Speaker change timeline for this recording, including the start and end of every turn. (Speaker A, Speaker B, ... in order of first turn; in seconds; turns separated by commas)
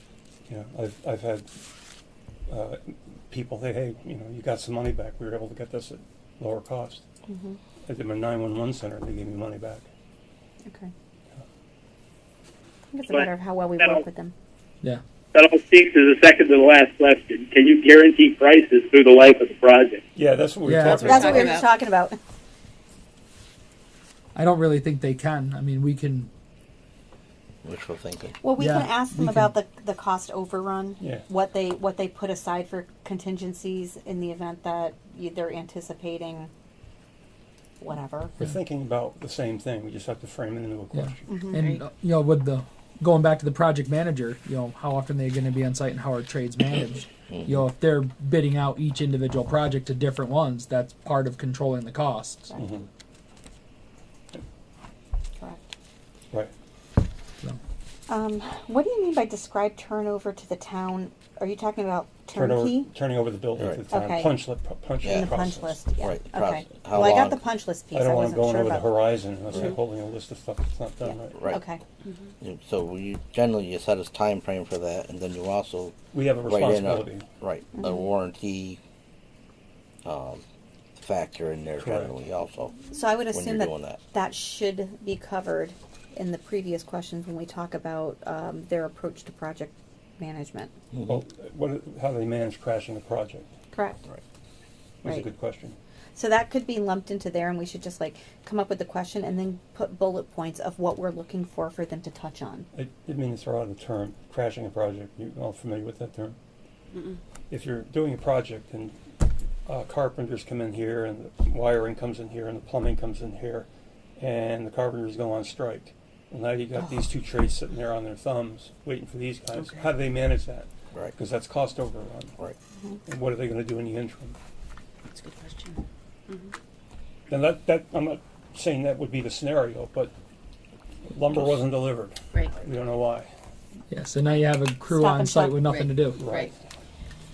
Speaker A: 0.5-1.5, Speaker A: 2.5-7.0, Speaker B: 7.3-7.6, Speaker A: 7.9-9.9, Speaker B: 10.6-10.9, Speaker B: 12.9-14.3, Speaker C: 15.3-20.0, Speaker A: 20.1-21.6, Speaker D: 20.6-21.4, Speaker B: 20.8-22.1, Speaker E: 21.0-21.7, Speaker D: 24.3-26.3, Speaker F: 27.6-28.4, Speaker B: 28.4-36.5, Speaker D: 28.6-29.5, Speaker A: 31.0-31.3, Speaker B: 37.8-38.3, Speaker A: 38.4-41.3, Speaker D: 40.9-52.5, Speaker B: 41.3-41.6, Speaker E: 41.6-41.8, Speaker F: 47.3-47.6, Speaker A: 52.5-52.9, Speaker B: 55.4-55.7, Speaker B: 58.1-62.9, Speaker A: 62.3-65.8, Speaker B: 63.9-64.4, Speaker F: 65.0-65.4, Speaker B: 65.0-69.0, Speaker F: 66.0-67.4, Speaker A: 67.9-71.4, Speaker F: 71.3-71.6, Speaker B: 71.5-71.8, Speaker F: 72.4-78.8, Speaker A: 76.1-77.2, Speaker B: 77.7-78.1, Speaker F: 80.0-80.4, Speaker F: 81.0-82.8, Speaker A: 81.8-82.1, Speaker B: 82.9-90.7, Speaker F: 83.3-84.0, Speaker F: 90.9-91.2, Speaker A: 91.1-93.5, Speaker B: 93.7-94.0, Speaker A: 95.0-95.8, Speaker B: 96.1-102.7, Speaker A: 102.7-106.4, Speaker A: 107.5-109.0, Speaker A: 109.7-122.4, Speaker A: 123.0-124.4, Speaker E: 125.1-126.5, Speaker A: 127.3-130.1, Speaker A: 131.1-133.3, Speaker D: 133.9-136.2, Speaker B: 134.9-135.8, Speaker E: 135.6-136.5, Speaker A: 136.1-136.6